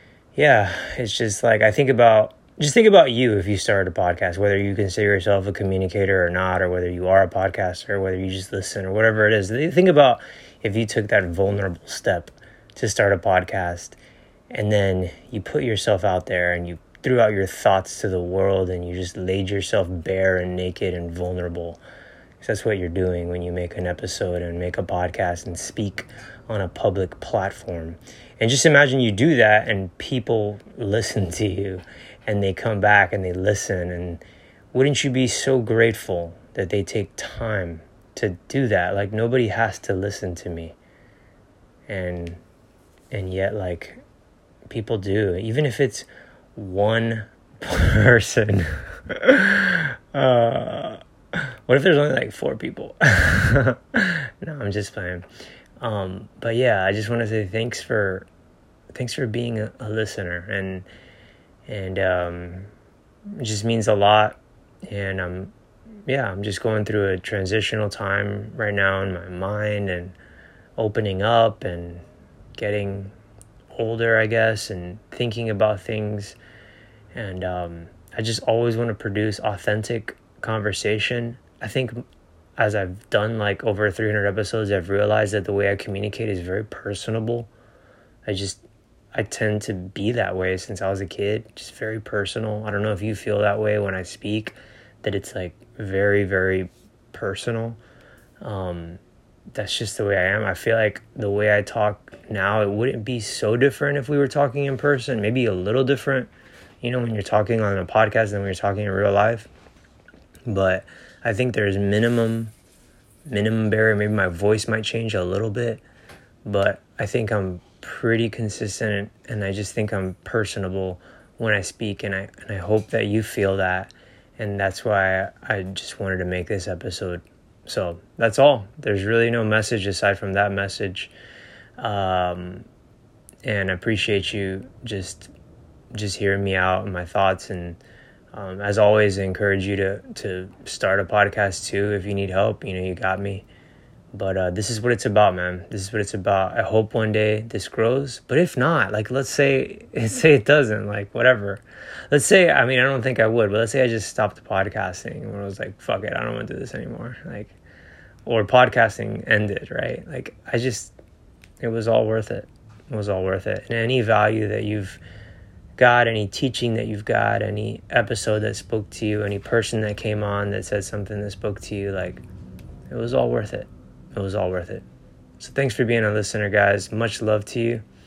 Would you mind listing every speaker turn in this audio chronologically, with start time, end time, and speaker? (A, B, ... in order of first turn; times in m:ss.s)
0:00.3-0:14.0 A
0:14.5-0:21.8 A
0:22.4-0:40.8 A
0:41.9-0:42.4 A
0:43.1-0:44.0 A
0:44.7-0:51.0 A
0:51.6-0:55.3 A
0:55.8-0:58.3 A
0:58.9-1:00.9 A
1:01.7-1:02.7 A
1:03.3-1:05.5 A
1:06.1-1:10.2 A
1:10.8-1:12.0 A
1:12.6-1:13.1 A
1:13.7-1:16.4 A
1:17.1-1:22.0 A
1:22.6-1:27.5 A
1:28.2-1:28.6 A
1:29.1-1:37.8 A
1:38.4-1:39.0 A
1:39.5-1:46.3 A
1:46.8-1:49.5 A
1:50.5-1:52.5 A
1:53.2-1:55.8 A
1:56.4-2:11.1 A
2:11.8-2:12.6 A
2:13.4-2:15.3 A
2:15.9-2:17.8 A
2:18.3-2:23.4 A
2:24.1-2:37.5 A
2:38.2-2:40.9 A
2:41.6-2:45.0 A
2:45.8-2:52.2 A
2:52.9-2:54.8 A
2:55.4-2:57.8 A